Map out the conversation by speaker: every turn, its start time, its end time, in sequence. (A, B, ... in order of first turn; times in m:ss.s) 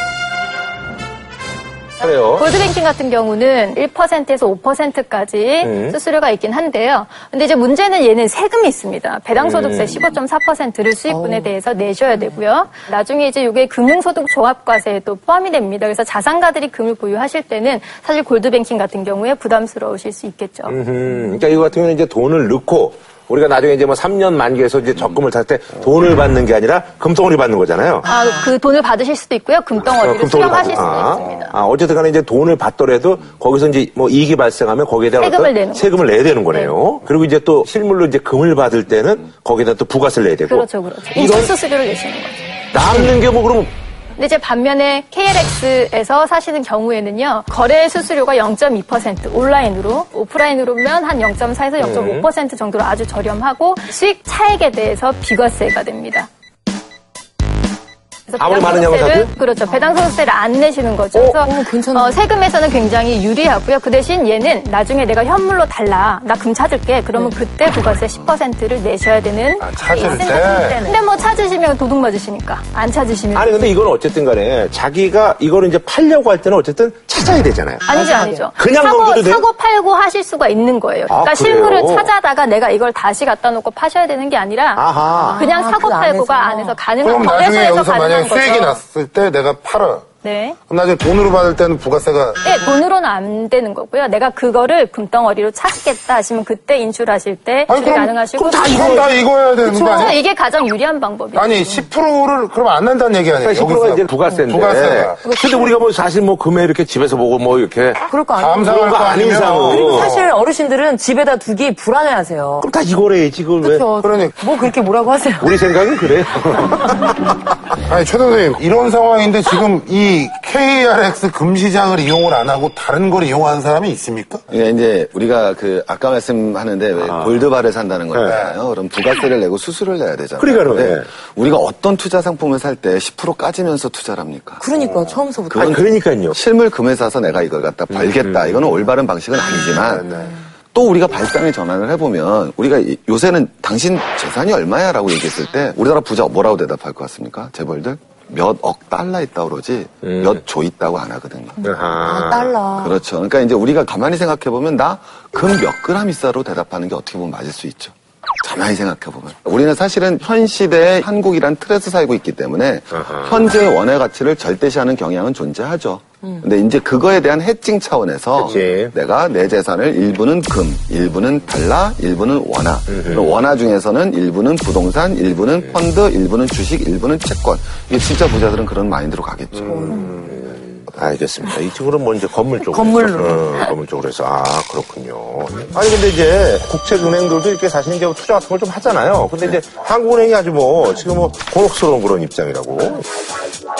0:02.0-0:02.5 A
0:02.1-0:20.8 B
0:05.6-0:06.0 A
0:09.4-0:10.1 A
0:11.1-0:11.6 C
0:20.7-0:28.1 A
0:28.0-0:31.6 B
0:30.0-0:41.5 A
0:35.2-0:36.0 B
0:40.5-0:42.4 B
0:42.7-0:43.7 A
0:44.2-0:56.3 B
0:51.8-0:52.3 A
0:58.3-1:13.7 B
0:58.4-0:59.3 A
0:59.7-1:00.2 C
1:01.1-1:02.2 C
1:07.2-1:07.4 C
1:09.6-1:10.8 D
1:09.9-1:11.3 C
1:13.4-1:19.4 A
1:17.9-1:28.8 B
1:17.9-1:18.5 C
1:21.1-1:22.1 A
1:24.8-1:25.5 A
1:25.1-1:26.9 C
1:27.0-1:30.1 D
1:30.2-1:30.6 B
1:30.7-1:32.8 D
1:32.4-1:41.8 B
1:37.7-1:40.2 D
1:38.4-1:39.1 A
1:39.6-1:40.1 C
1:41.4-1:45.2 D
1:43.4-1:48.1 A
1:45.2-1:45.7 B
1:48.0-1:52.7 C
1:48.4-1:50.3 D
1:48.6-1:50.1 A
1:52.6-1:53.9 A
1:53.6-1:55.6 C
1:54.0-1:54.4 D
1:55.4-1:57.2 A
1:57.9-2:04.4 D
2:04.5-2:14.6 E
2:07.0-2:07.4 A
2:08.1-2:08.4 A
2:08.3-2:08.5 D
2:10.4-2:11.1 A
2:14.6-2:15.8 C
2:15.5-2:20.1 E
2:15.5-2:16.4 A
2:17.9-2:18.8 A
2:19.9-2:20.3 D
2:20.7-2:31.6 E
2:30.0-2:30.4 A
2:31.6-2:32.6 A
2:32.0-2:33.0 C
2:32.8-3:00.0 E
2:42.9-2:43.5 A
2:48.4-2:48.9 A
2:52.9-2:53.4 A
2:59.6-3:00.1 C
2:59.9-3:00.3 D
3:00.2-3:13.1 A
3:02.7-3:03.7 C